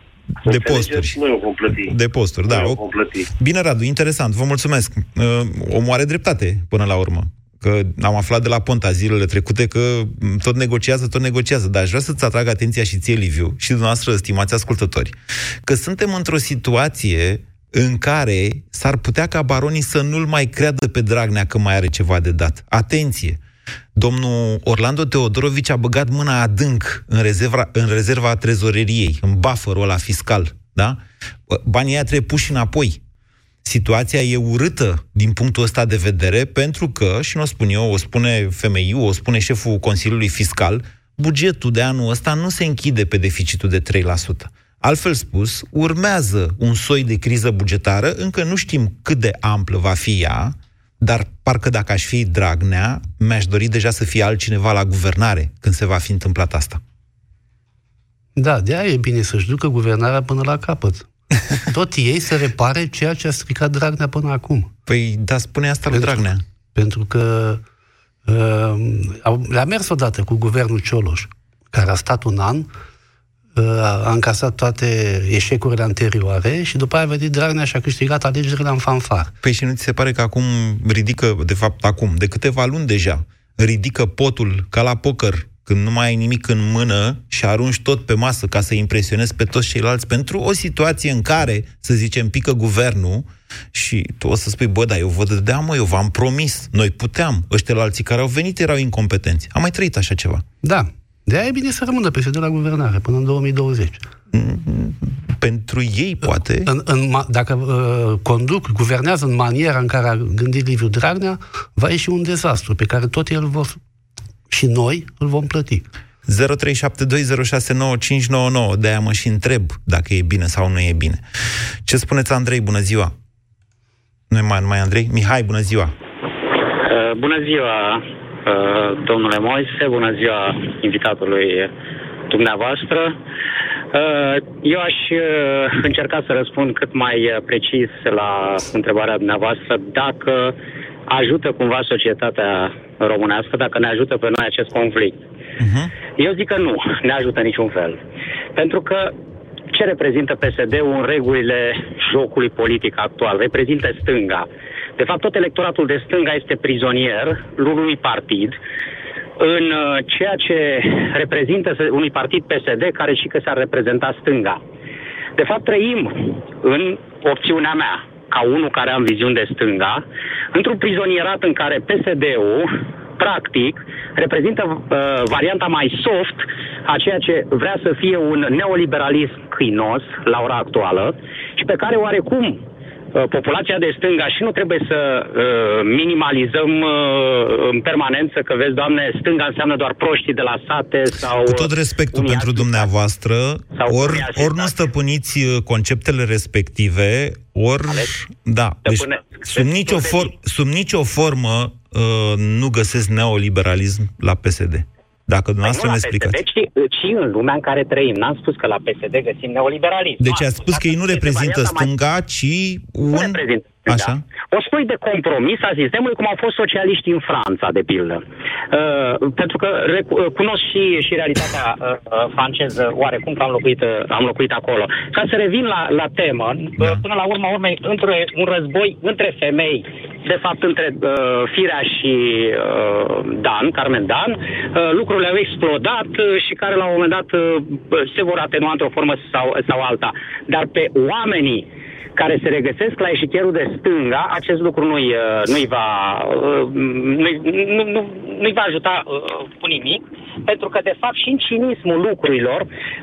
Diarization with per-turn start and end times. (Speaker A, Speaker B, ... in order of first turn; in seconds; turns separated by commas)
Speaker A: 0.4-1.2, Speaker B: 0.4-1.9, Speaker A: 1.7-2.8, Speaker B: 2.5-3.3, Speaker A: 3.4-23.4, Speaker A: 23.9-33.0, Speaker A: 33.6-56.8, Speaker C: 58.4-61.1, Speaker C: 61.6-64.7, Speaker A: 64.9-66.4, Speaker C: 65.9-67.6, Speaker C: 68.3-72.7, Speaker C: 73.5-79.3, Speaker A: 79.4-100.4, Speaker C: 100.6-104.0, Speaker A: 104.3-106.7, Speaker C: 106.6-113.8, Speaker C: 114.5-115.8, Speaker A: 116.2-121.2, Speaker A: 121.8-123.1, Speaker A: 124.3-125.9, Speaker D: 126.8-131.7, Speaker D: 132.3-133.2, Speaker D: 133.9-140.5, Speaker D: 141.1-145.2, Speaker A: 145.6-145.9, Speaker D: 146.2-148.0, Speaker D: 148.6-149.1, Speaker D: 149.7-154.5, Speaker D: 155.0-158.6, Speaker D: 159.4-164.6, Speaker D: 165.4-182.6, Speaker D: 183.1-192.9, Speaker A: 191.4-206.4, Speaker D: 193.7-194.7, Speaker D: 198.8-200.3, Speaker D: 205.6-211.9, Speaker A: 210.2-214.2, Speaker D: 213.1-241.7, Speaker D: 242.2-252.7